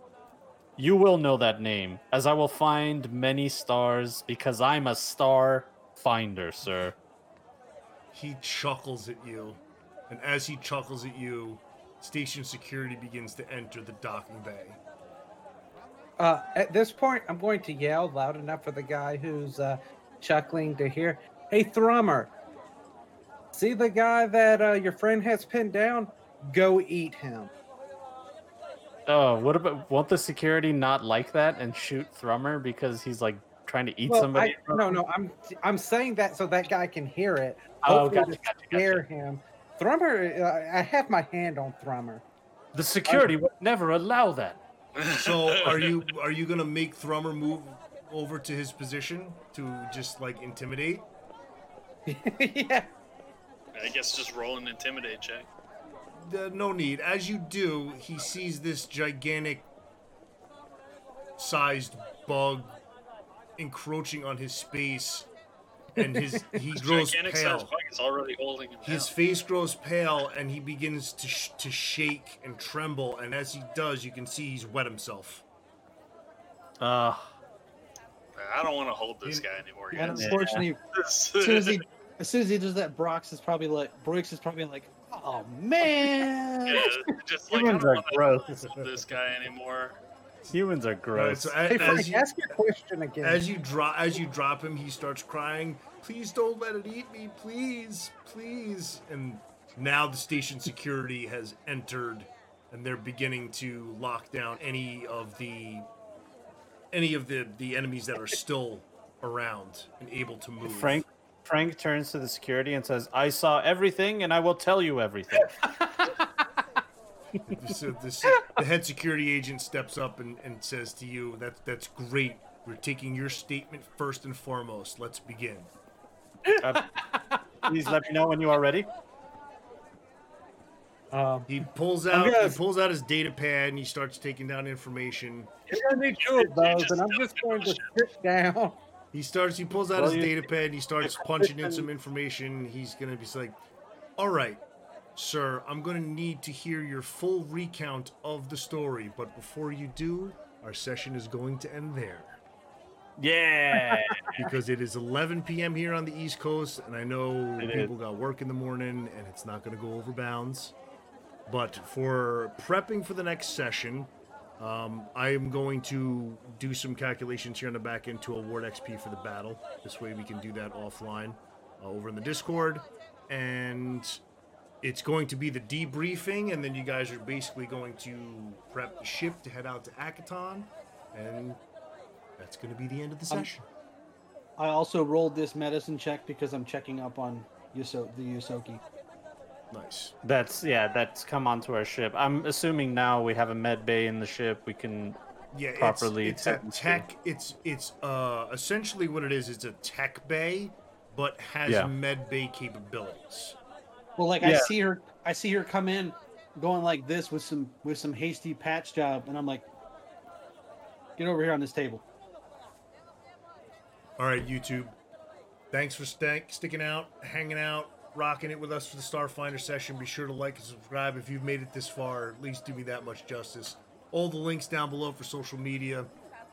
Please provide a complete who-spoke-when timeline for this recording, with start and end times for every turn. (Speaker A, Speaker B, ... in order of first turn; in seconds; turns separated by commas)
Speaker A: 0.8-7.0, Speaker B: 8.1-14.8, Speaker C: 16.2-22.3, Speaker C: 23.5-27.5, Speaker A: 29.1-35.0, Speaker C: 34.1-42.2, Speaker A: 37.8-39.0, Speaker A: 42.7-44.6, Speaker C: 43.1-43.4, Speaker D: 45.0-46.0, Speaker B: 45.1-51.1, Speaker C: 52.1-52.9, Speaker D: 53.7-55.5, Speaker B: 56.2-59.7, Speaker B: 61.4-62.8, Speaker B: 63.6-65.3, Speaker B: 66.0-67.7, Speaker C: 66.0-66.6, Speaker D: 66.8-69.1, Speaker B: 68.8-75.5, Speaker A: 76.8-77.3, Speaker D: 78.4-81.8, Speaker E: 79.9-80.8, Speaker A: 80.1-80.7, Speaker E: 81.4-86.9, Speaker D: 86.7-90.0, Speaker A: 87.5-88.5, Speaker B: 88.6-88.9, Speaker A: 90.5-92.0, Speaker B: 91.1-92.3, Speaker C: 91.7-93.4, Speaker B: 93.2-105.9, Speaker B: 106.9-111.0, Speaker A: 110.6-116.2, Speaker C: 115.5-116.2, Speaker B: 117.5-125.7, Speaker C: 126.5-128.0, Speaker A: 126.6-127.0, Speaker A: 127.6-128.9, Speaker C: 131.1-132.6, Speaker B: 131.5-135.5, Speaker C: 135.7-138.8, Speaker D: 136.2-137.9, Speaker B: 139.1-143.6, Speaker A: 140.0-140.4, Speaker A: 141.0-141.8, Speaker B: 144.2-144.6, Speaker B: 145.2-152.4, Speaker A: 153.2-154.4, Speaker C: 153.7-154.2, Speaker B: 154.3-160.8, Speaker A: 157.6-157.9, Speaker B: 161.5-174.2, Speaker B: 174.8-181.6, Speaker B: 182.4-183.7, Speaker E: 184.6-188.8, Speaker B: 189.7-190.2, Speaker A: 190.2-195.2, Speaker B: 195.5-203.6, Speaker A: 195.8-197.1, Speaker A: 201.7-201.9, Speaker E: 204.2-209.7, Speaker A: 204.4-204.8, Speaker E: 211.2-212.0, Speaker B: 214.2-214.9, Speaker B: 215.7-226.1